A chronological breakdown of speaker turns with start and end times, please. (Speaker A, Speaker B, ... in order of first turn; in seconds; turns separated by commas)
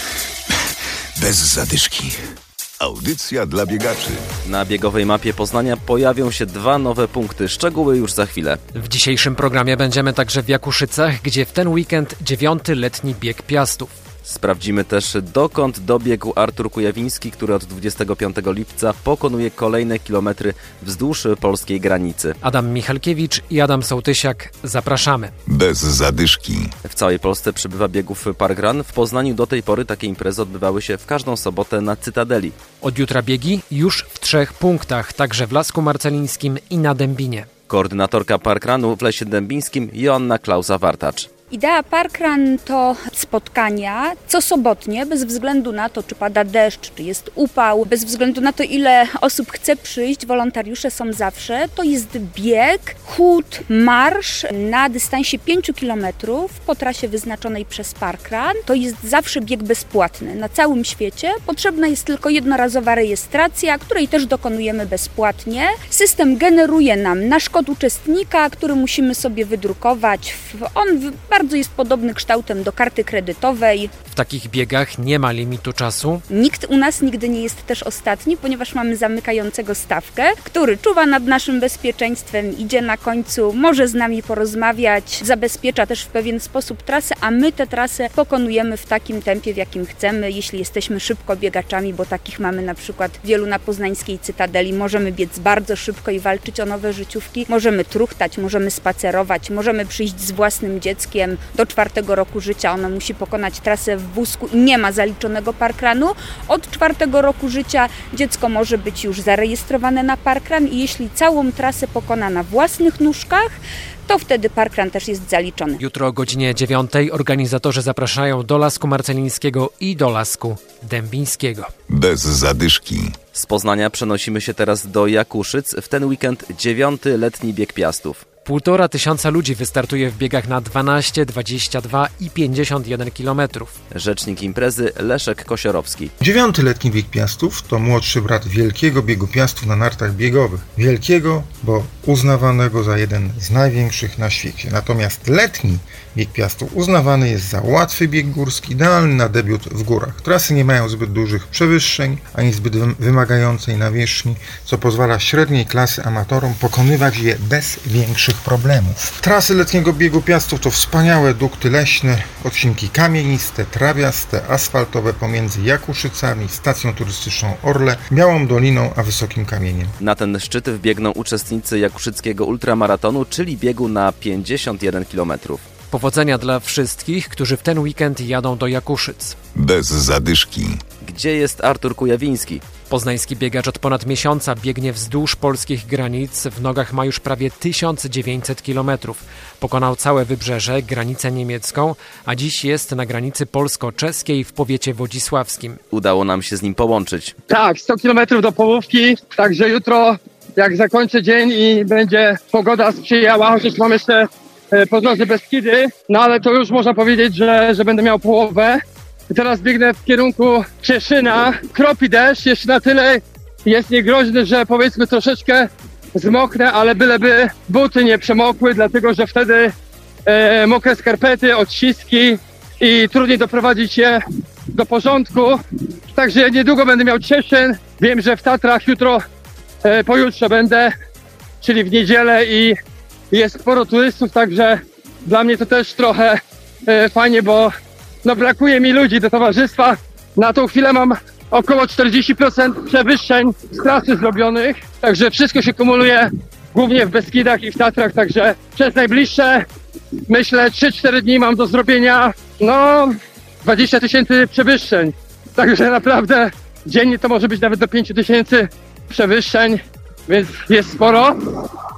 Speaker A: 1.2-2.2, Speaker A: 2.8-4.2, Speaker B: 4.5-8.6, Speaker C: 8.7-13.9, Speaker B: 14.2-22.4, Speaker C: 22.4-25.3, Speaker A: 25.5-26.7, Speaker B: 26.8-32.6, Speaker C: 32.8-37.5, Speaker B: 37.7-41.3, Speaker D: 41.5-73.9, Speaker C: 74.1-76.2, Speaker D: 76.3-113.5, Speaker D: 114.1-115.8, Speaker C: 115.8-121.7, Speaker A: 121.9-123.2, Speaker B: 123.3-128.2, Speaker C: 128.4-133.8, Speaker B: 133.9-136.1, Speaker E: 136.2-170.0, Speaker B: 170.0-175.7, Speaker C: 175.9-179.4, Speaker A: 179.6-180.8, Speaker B: 181.0-182.6, Speaker C: 182.9-195.8, Speaker B: 195.9-197.3, Speaker F: 197.5-219.7, Speaker F: 220.3-225.6, Speaker F: 226.1-229.2, Speaker F: 229.8-230.9, Speaker F: 231.6-232.8, Speaker F: 233.3-237.7, Speaker F: 238.2-249.7, Speaker F: 250.3-261.7